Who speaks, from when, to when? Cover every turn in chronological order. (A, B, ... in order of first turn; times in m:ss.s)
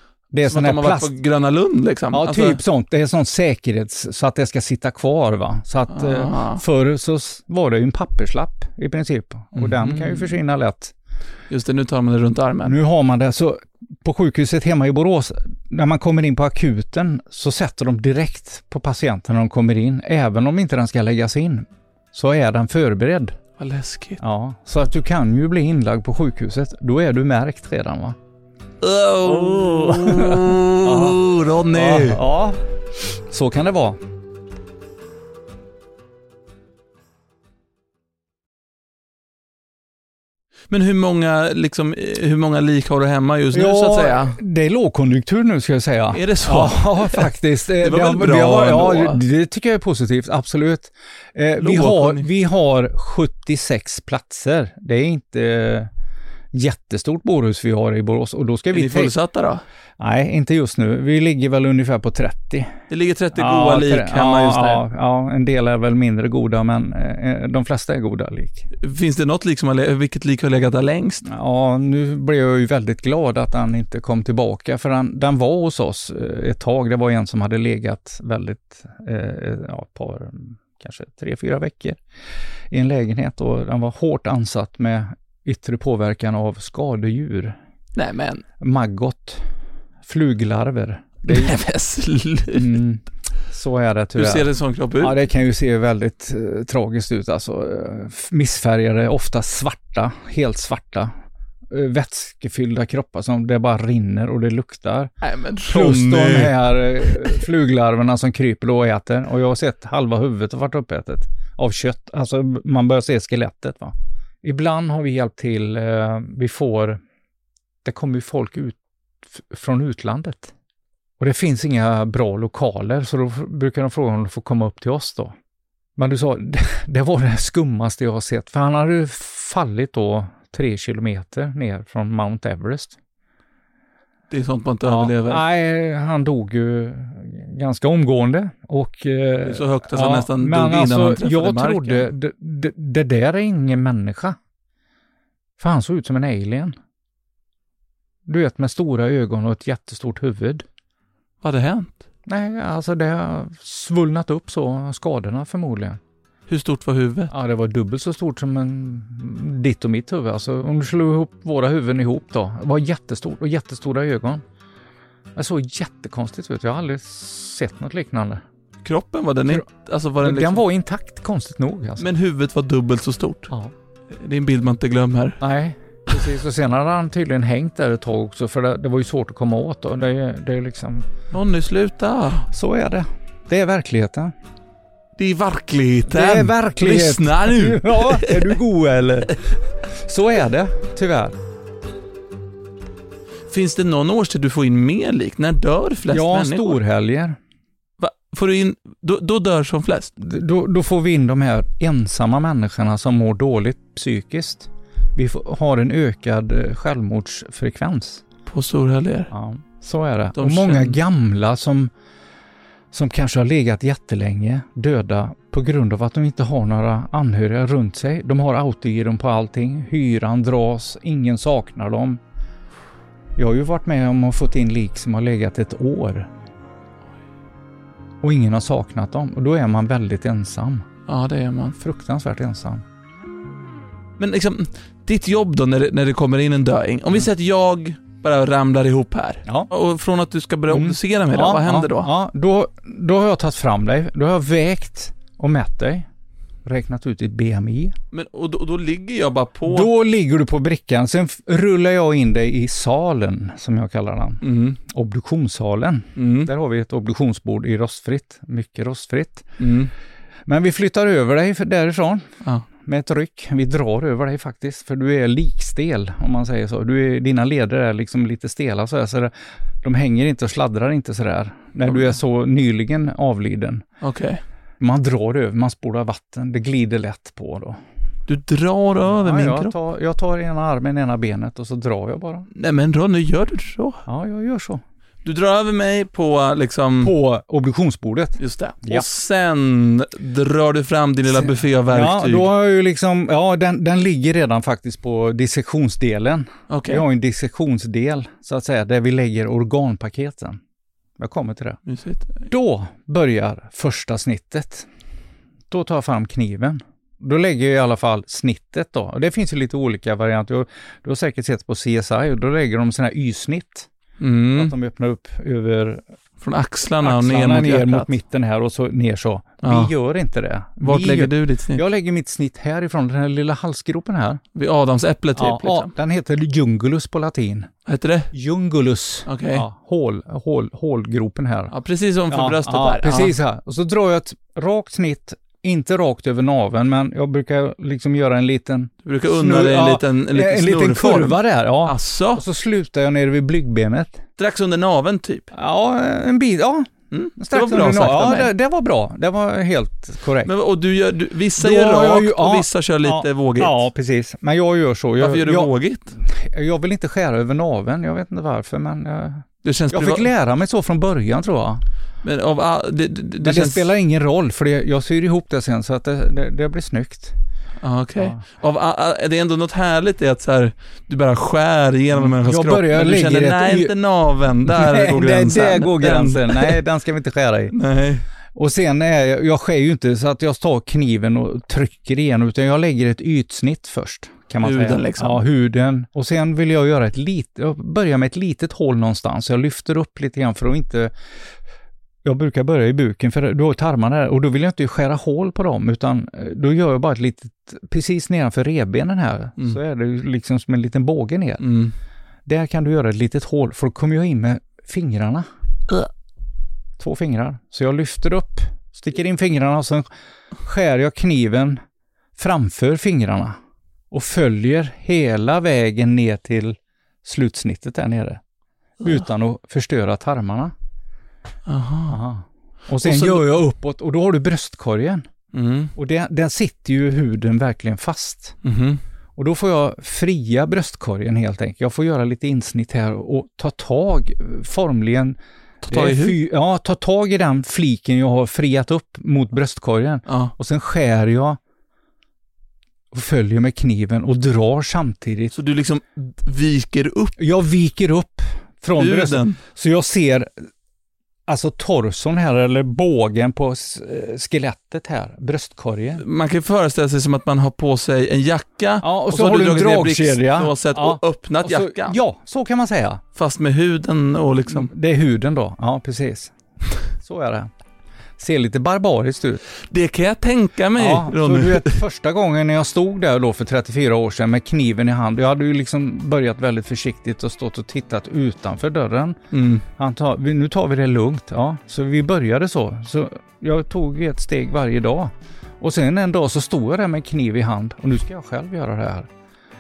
0:00.3-0:01.1 A
0:00.4-0:02.6 B
0:02.1-0:10.9 A
0:05.9-0:06.6 B
0:09.6-0:10.3 B
0:11.5-0:12.8 B
0:12.6-0:23.4 A
0:23.6-0:24.2 B
0:24.2-0:28.2 A
0:28.8-0:32.2 B
0:29.2-0:32.6 A
0:33.1-0:34.0 A
0:40.7-0:44.4 B
0:43.5-0:55.9 A
0:46.1-0:47.3 B
0:47.8-0:49.2 B
0:51.6-0:52.3 B
0:56.5-0:59.2 A
0:58.7-0:59.6 B
1:00.0-1:02.7 A
1:02.9-1:04.8 B
1:03.4-1:08.7 A
1:08.8-1:11.3 B
1:11.2-1:22.0 A
1:22.7-1:27.6 A
1:28.0-1:28.4 B
1:28.6-1:29.4 A
1:30.0-1:31.6 A
1:31.3-1:32.8 B
1:32.5-1:41.1 A
1:34.2-1:35.2 B
1:41.7-1:45.1 A
1:45.2-1:47.4 B
1:45.6-1:57.0 A
1:57.8-2:00.5 A
2:01.2-2:05.3 A
2:06.0-2:13.0 A
2:14.3-2:15.4 B
2:14.8-2:24.4 A
2:19.4-2:22.1 B
2:25.6-2:26.8 A
2:28.3-2:30.6 A
2:31.4-2:32.0 B
2:32.3-2:36.0 A
2:36.5-2:37.3 B
2:37.3-2:44.4 A
2:45.4-2:48.4 A
2:48.8-2:50.6 B
2:50.2-2:52.1 A
2:52.0-2:53.5 B
2:54.1-2:55.4 B
2:55.4-3:01.1 A
3:01.3-3:02.4 B
3:02.4-3:04.3 A
3:05.2-3:08.6 B
3:06.1-3:11.4 A
3:13.5-3:16.8 B
3:16.1-3:17.4 A
3:18.0-3:20.1 B
3:20.2-3:28.2 A
3:28.5-3:29.3 B
3:29.3-3:31.9 A
3:30.4-3:31.0 B
3:32.9-3:42.2 A
3:43.4-3:46.3 A
3:48.2-3:50.9 A
3:51.1-3:51.8 B
3:51.8-3:52.8 A
3:54.2-4:02.1 B
4:00.7-4:06.1 A
4:06.6-4:07.9 A
4:08.1-4:09.9 B
4:09.6-4:19.5 A
4:14.4-4:14.8 B
4:16.2-4:16.5 B
4:19.6-4:19.9 B
4:20.5-4:22.3 A
4:22.8-4:33.8 A
4:34.0-4:34.4 B
4:34.8-4:37.8 A
4:38.3-4:39.8 B
4:39.0-4:42.5 A
4:42.5-4:44.0 B
4:44.1-4:44.8 A
4:45.2-4:47.1 B
4:47.0-4:49.1 A
4:48.4-4:52.5 B
4:51.3-5:00.6 A
4:56.7-4:57.1 B
5:01.2-5:01.8 A
5:01.9-5:02.5 B
5:02.5-5:04.9 A
5:05.7-5:13.9 A
5:14.2-5:14.7 B
5:14.5-5:16.0 A
5:16.4-5:18.1 B
5:17.0-5:24.4 A
5:19.6-5:19.9 B
5:20.8-5:21.8 B
5:24.5-5:25.9 B
5:25.4-5:27.7 A
5:27.9-5:28.3 B
5:28.3-5:31.7 A
5:29.3-5:29.7 B
5:31.7-5:33.4 B
5:32.3-5:44.2 A
5:39.0-5:42.4 B
5:44.4-5:45.5 B
5:45.5-5:50.5 A
5:47.1-5:48.5 B
5:50.4-5:53.8 B
5:51.6-6:01.8 A
5:55.2-5:56.2 B
5:59.6-6:00.3 B
6:02.2-6:03.9 B
6:03.4-6:07.4 A
6:07.8-6:16.8 B
6:12.1-6:13.9 A
6:14.6-6:17.8 A
6:17.7-6:18.2 B
6:18.5-6:31.1 A
6:24.6-6:25.4 B
6:32.2-6:41.6 A
6:41.6-6:41.9 B
6:42.5-6:45.5 A
6:47.0-6:50.1 A
6:50.6-6:51.8 A
6:52.4-6:53.6 A
6:54.1-6:58.4 A
6:59.0-7:00.7 A
7:01.7-7:02.2 B
7:02.1-7:05.3 A
7:03.0-7:03.5 B
7:05.5-7:05.9 B
7:06.0-7:08.6 A
7:08.6-7:09.0 B
7:09.4-7:21.6 A
7:15.8-7:16.4 B
7:20.3-7:20.5 B
7:23.1-7:25.5 A
7:25.5-7:27.4 B
7:27.4-7:30.5 A
7:29.0-7:29.6 B
7:31.5-7:36.2 A
7:36.2-7:42.2 B
7:39.0-7:43.2 A
7:43.4-7:44.9 B
7:44.7-7:46.5 A
7:47.2-7:47.7 A
7:48.4-7:49.6 A
7:49.9-7:52.0 B
7:51.0-8:09.3 A
7:59.5-7:59.8 B